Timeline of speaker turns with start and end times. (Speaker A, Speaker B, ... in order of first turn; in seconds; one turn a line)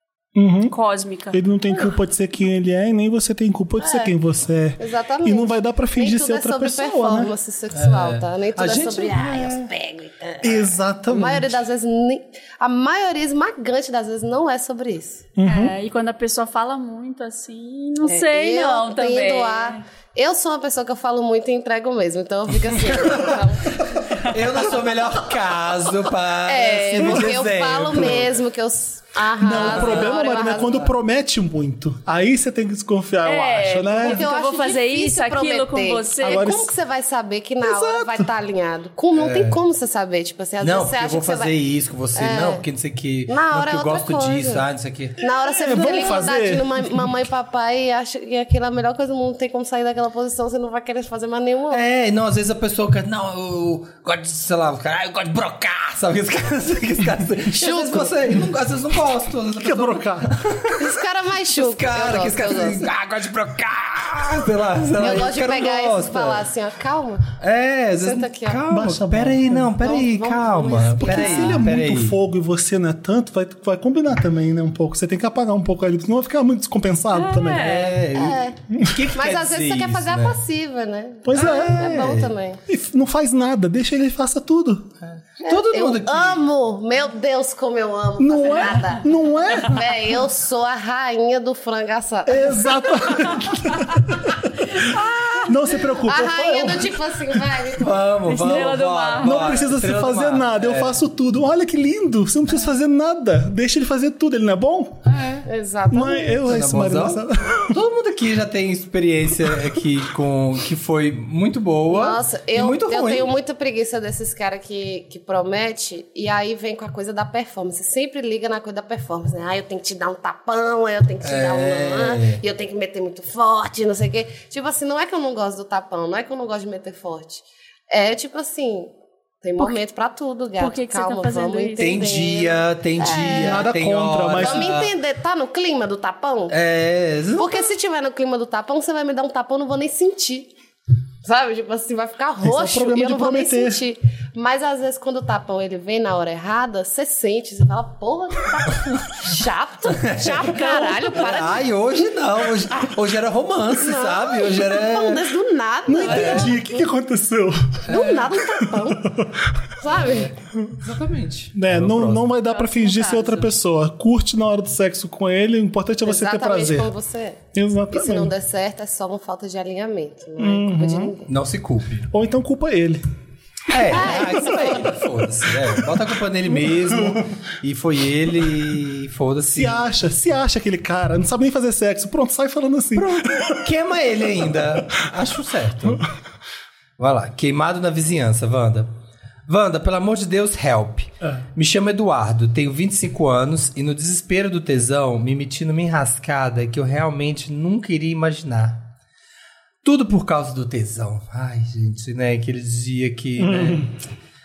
Speaker A: 0.3-0.7
Speaker B: 0.7-1.4
Speaker A: 1.3-7.3
Speaker C: 3.8-4.1
Speaker C: 4.8-15.2
Speaker D: 7.7-9.8
Speaker A: 10.4-11.6
Speaker A: 15.4-15.7
Speaker B: 15.4-19.8
Speaker C: 18.1-24.3
Speaker D: 22.8-23.4
Speaker D: 24.1-28.3
Speaker C: 26.4-30.9
Speaker A: 29.4-34.3
Speaker D: 29.6-30.2
Speaker B: 33.2-36.5
Speaker C: 34.0-41.5
Speaker A: 36.2-36.7
Speaker A: 37.6-38.3
Speaker D: 39.1-39.6
Speaker D: 40.6-45.2
Speaker C: 42.1-42.6
Speaker C: 43.3-44.6
Speaker C: 45.2-51.8
Speaker A: 45.5-47.1
Speaker D: 51.7-60.9
Speaker C: 57.5-58.2
Speaker A: 59.6-60.3
Speaker C: 60.7-62.9
Speaker D: 61.6-66.5
Speaker C: 65.0-67.3
Speaker D: 67.4-72.2
Speaker C: 68.0-68.6
Speaker A: 68.7-69.8
Speaker C: 69.8-71.6
Speaker A: 71.0-77.7
Speaker B: 77.1-78.0
Speaker D: 77.4-80.4
Speaker C: 78.1-78.6
Speaker A: 78.7-79.0
Speaker C: 79.1-82.6
Speaker A: 81.2-84.9
Speaker D: 81.3-82.3
Speaker D: 85.1-86.4
Speaker C: 85.4-93.4
Speaker A: 88.2-89.9
Speaker A: 92.3-97.4
Speaker B: 94.8-95.5
Speaker C: 96.0-98.0
Speaker D: 97.8-101.0
Speaker B: 98.2-99.6
Speaker A: 99.2-105.0
Speaker D: 105.1-105.4
Speaker C: 105.4-106.4
Speaker A: 105.9-107.8
Speaker D: 106.5-113.3
Speaker C: 111.9-128.9
Speaker D: 121.2-122.4
Speaker C: 129.4-133.7
Speaker B: 130.6-131.8
Speaker D: 131.8-134.9
Speaker A: 133.2-134.7
Speaker C: 134.3-136.6
Speaker D: 136.5-137.7
Speaker C: 137.4-140.5
Speaker C: 141.2-151.7
Speaker A: 142.4-143.8
Speaker D: 150.0-150.5
Speaker B: 150.4-151.2
Speaker D: 151.2-155.3
Speaker C: 153.8-156.8
Speaker A: 155.9-157.9
Speaker D: 156.0-156.5
Speaker B: 156.2-156.4
Speaker C: 157.9-159.1
Speaker D: 157.9-158.2
Speaker A: 158.5-159.6
Speaker C: 159.8-160.3
Speaker D: 159.9-162.3
Speaker A: 161.5-166.9
Speaker B: 162.4-163.5
Speaker C: 166.0-167.4
Speaker A: 167.5-168.3
Speaker C: 167.9-171.3
Speaker A: 170.4-171.1
Speaker D: 171.3-172.1
Speaker A: 172.1-173.0
Speaker D: 173.7-179.9
Speaker C: 173.8-175.0
Speaker A: 176.7-177.2
Speaker A: 179.5-183.6
Speaker D: 182.9-186.1
Speaker D: 187.0-188.9
Speaker D: 189.5-198.8
Speaker D: 199.8-203.9
Speaker A: 203.4-203.9